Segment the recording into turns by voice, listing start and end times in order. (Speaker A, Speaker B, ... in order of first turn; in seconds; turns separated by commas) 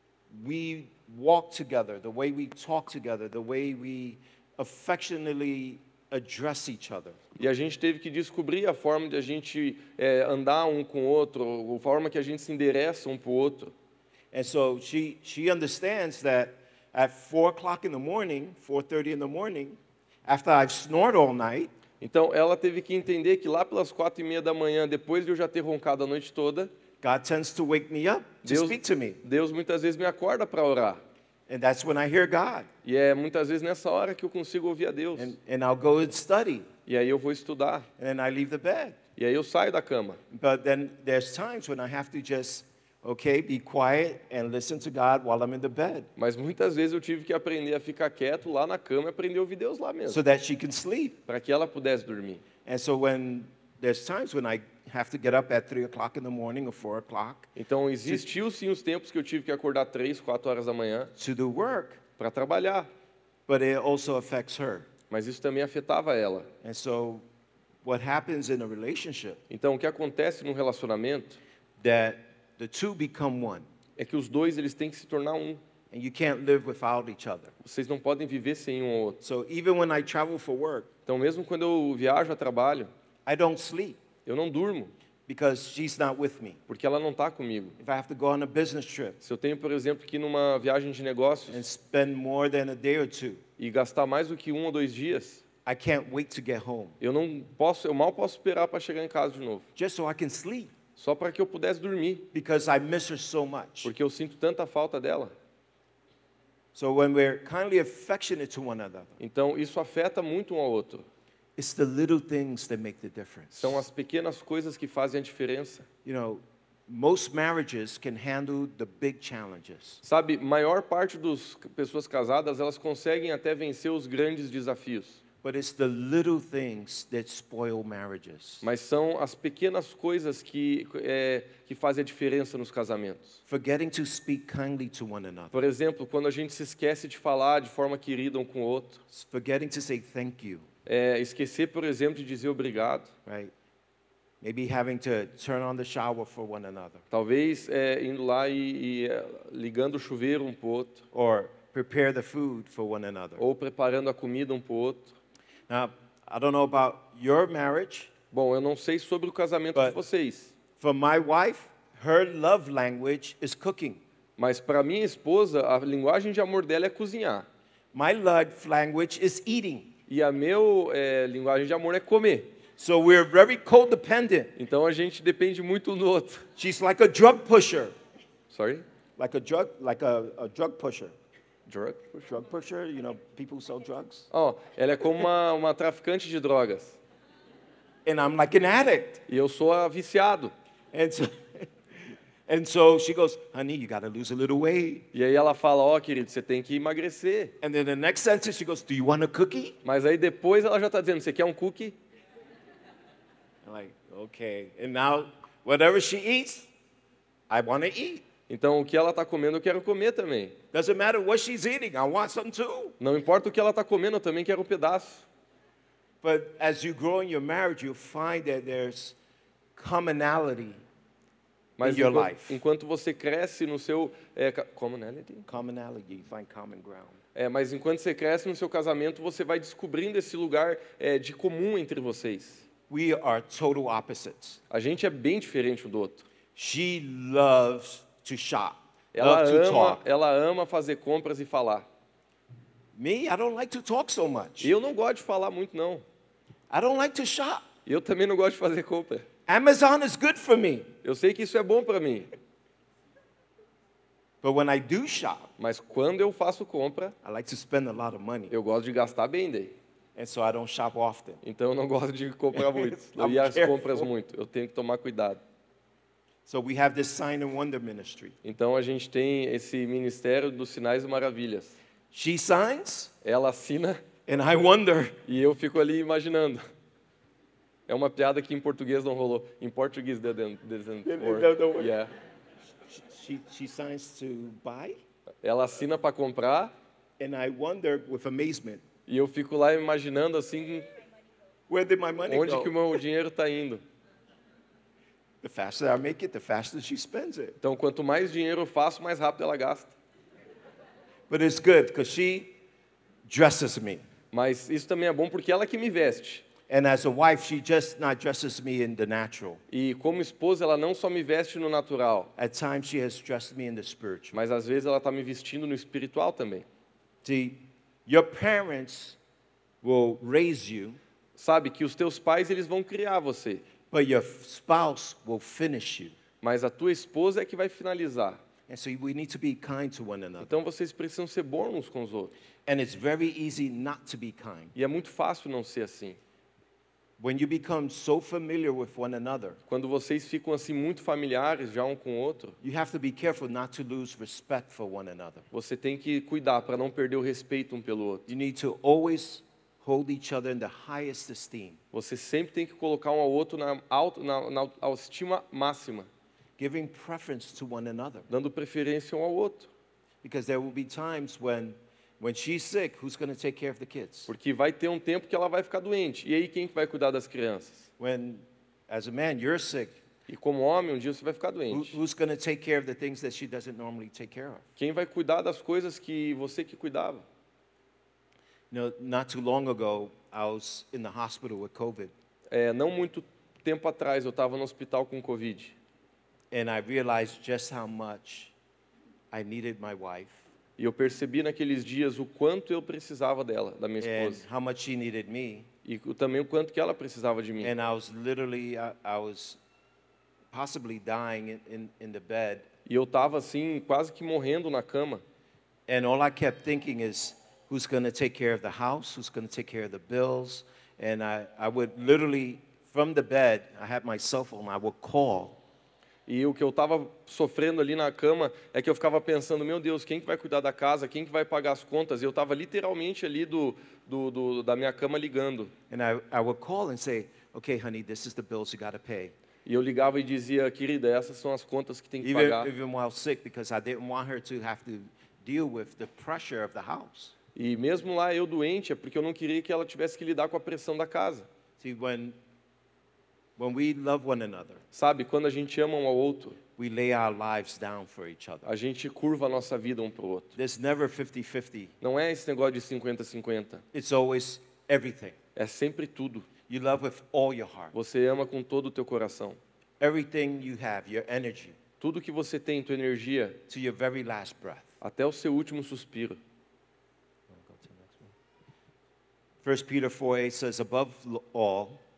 Speaker A: 0.3-7.2, Speaker B: 7.3-13.7, Speaker A: 14.3-21.7, Speaker B: 22.0-26.7, Speaker A: 27.0-29.2, Speaker B: 28.4-31.0, Speaker A: 31.5-32.7, Speaker B: 32.8-35.3, Speaker A: 35.1-36.7, Speaker B: 36.9-37.9, Speaker A: 38.0-39.0, Speaker B: 39.2-40.2, Speaker A: 40.3-46.1, Speaker B: 46.2-50.2, Speaker A: 50.1-51.2, Speaker B: 51.3-52.4, Speaker A: 52.6-57.5, Speaker B: 57.5-61.1, Speaker A: 61.1-62.0, Speaker B: 62.2-62.9, Speaker A: 63.5-64.9, Speaker B: 65.1-66.5, Speaker A: 66.6-67.2, Speaker A: 67.8-69.4, Speaker B: 69.5-71.4, Speaker A: 71.8-73.7, Speaker B: 74.0-75.6, Speaker A: 75.9-77.5, Speaker B: 77.6-79.2, Speaker A: 79.2-80.9, Speaker B: 81.1-82.9, Speaker A: 83.2-84.0, Speaker B: 84.2-84.9, Speaker A: 85.3-86.6, Speaker B: 86.7-87.8, Speaker A: 87.8-89.2, Speaker B: 89.2-91.6, Speaker A: 91.5-93.4, Speaker B: 93.6-95.4, Speaker A: 95.6-97.0, Speaker B: 97.0-99.6, Speaker A: 99.8-100.7, Speaker B: 101.0-102.3, Speaker A: 102.3-103.9, Speaker B: 103.8-105.3, Speaker A: 106.7-109.2, Speaker B: 109.2-111.0, Speaker A: 111.6-113.8, Speaker B: 113.5-115.8, Speaker A: 116.0-120.0, Speaker B: 120.0-125.2, Speaker A: 125.4-128.6, Speaker B: 128.6-133.4, Speaker A: 133.5-135.6, Speaker B: 135.5-139.0, Speaker A: 139.1-140.7, Speaker B: 140.8-143.1, Speaker A: 143.2-143.5, Speaker A: 144.4-147.0, Speaker B: 147.1-151.0, Speaker A: 151.1-153.4, Speaker B: 153.4-155.1, Speaker A: 155.7-158.1, Speaker B: 158.3-160.5, Speaker A: 160.8-164.0, Speaker B: 164.4-167.4, Speaker A: 167.9-169.9, Speaker B: 170.1-172.5, Speaker A: 172.8-174.5, Speaker B: 174.6-176.4, Speaker A: 176.6-177.9, Speaker B: 178.5-178.8, Speaker A: 179.2-181.1, Speaker B: 181.7-182.2, Speaker A: 182.2-184.3, Speaker B: 184.3-187.0, Speaker A: 188.0-189.2, Speaker B: 189.3-190.5, Speaker A: 190.9-191.7, Speaker A: 192.5-195.1, Speaker B: 195.1-197.5, Speaker A: 197.6-199.8, Speaker B: 199.8-202.0, Speaker A: 203.6-206.7, Speaker A: 207.5-208.2, Speaker B: 208.5-210.6, Speaker A: 210.7-212.9, Speaker B: 213.0-215.2, Speaker A: 216.2-219.2, Speaker A: 219.8-220.8, Speaker B: 221.8-225.5, Speaker A: 221.8-222.6, Speaker A: 225.5-227.2, Speaker B: 227.3-232.6, Speaker A: 232.9-234.6, Speaker B: 234.7-236.2, Speaker A: 236.5-240.0, Speaker B: 239.1-241.9, Speaker A: 242.9-244.7, Speaker B: 244.6-246.0, Speaker A: 246.7-247.7, Speaker B: 247.8-249.2, Speaker A: 249.5-250.9, Speaker B: 251.0-252.3, Speaker A: 254.4-255.5, Speaker B: 255.6-257.1, Speaker A: 257.2-258.5, Speaker B: 258.5-259.7, Speaker A: 260.1-261.4, Speaker B: 261.4-265.4, Speaker A: 262.5-264.1, Speaker A: 266.4-268.3, Speaker B: 268.4-271.8, Speaker A: 272.1-273.1, Speaker B: 273.2-274.0, Speaker A: 274.3-275.2, Speaker B: 275.2-276.6, Speaker B: 277.9-282.1, Speaker A: 281.0-281.9, Speaker A: 282.9-285.0, Speaker B: 285.4-286.7, Speaker A: 287.2-288.8, Speaker B: 289.1-290.9, Speaker A: 291.7-293.0, Speaker B: 292.3-293.8, Speaker A: 295.4-297.6, Speaker B: 297.6-299.9, Speaker A: 301.3-302.5, Speaker A: 303.2-304.0, Speaker B: 304.3-306.4, Speaker A: 306.7-309.6, Speaker B: 309.7-312.3, Speaker A: 312.4-314.4, Speaker B: 314.3-316.6, Speaker A: 317.2-319.2, Speaker A: 319.8-321.0, Speaker B: 321.4-323.6, Speaker A: 323.9-326.1, Speaker B: 326.4-328.4, Speaker A: 328.7-330.5, Speaker B: 330.4-332.3, Speaker A: 332.6-334.7, Speaker B: 334.7-336.2, Speaker A: 337.2-339.6, Speaker B: 339.7-342.6, Speaker A: 342.6-345.4, Speaker B: 345.5-348.3, Speaker A: 348.3-351.8, Speaker B: 351.9-356.1, Speaker A: 356.6-358.3, Speaker B: 358.3-359.7, Speaker A: 360.2-364.3, Speaker B: 364.3-367.9, Speaker A: 368.0-370.0, Speaker B: 370.3-372.0, Speaker A: 371.7-374.6, Speaker B: 374.8-377.2, Speaker A: 378.7-382.1, Speaker B: 382.5-385.7, Speaker A: 386.5-388.5, Speaker A: 389.3-390.4, Speaker B: 390.8-394.4, Speaker A: 394.0-395.7, Speaker B: 395.8-397.7, Speaker A: 397.6-399.6, Speaker A: 400.5-402.6, Speaker B: 402.9-405.2, Speaker A: 405.9-415.6, Speaker B: 416.3-425.7, Speaker A: 425.9-429.3, Speaker B: 429.6-432.7, Speaker A: 432.2-437.3, Speaker B: 437.5-441.5, Speaker A: 441.8-442.4, Speaker A: 443.6-444.8, Speaker B: 444.9-446.6, Speaker A: 446.8-448.7, Speaker B: 448.6-450.5, Speaker A: 450.6-451.9, Speaker B: 452.0-453.8, Speaker A: 453.9-455.4, Speaker B: 455.6-456.5, Speaker A: 456.7-457.9, Speaker B: 457.9-459.6, Speaker A: 460.0-461.8, Speaker B: 462.0-463.6, Speaker A: 463.7-464.9, Speaker B: 465.0-466.4, Speaker A: 467.5-468.3, Speaker A: 469.6-472.0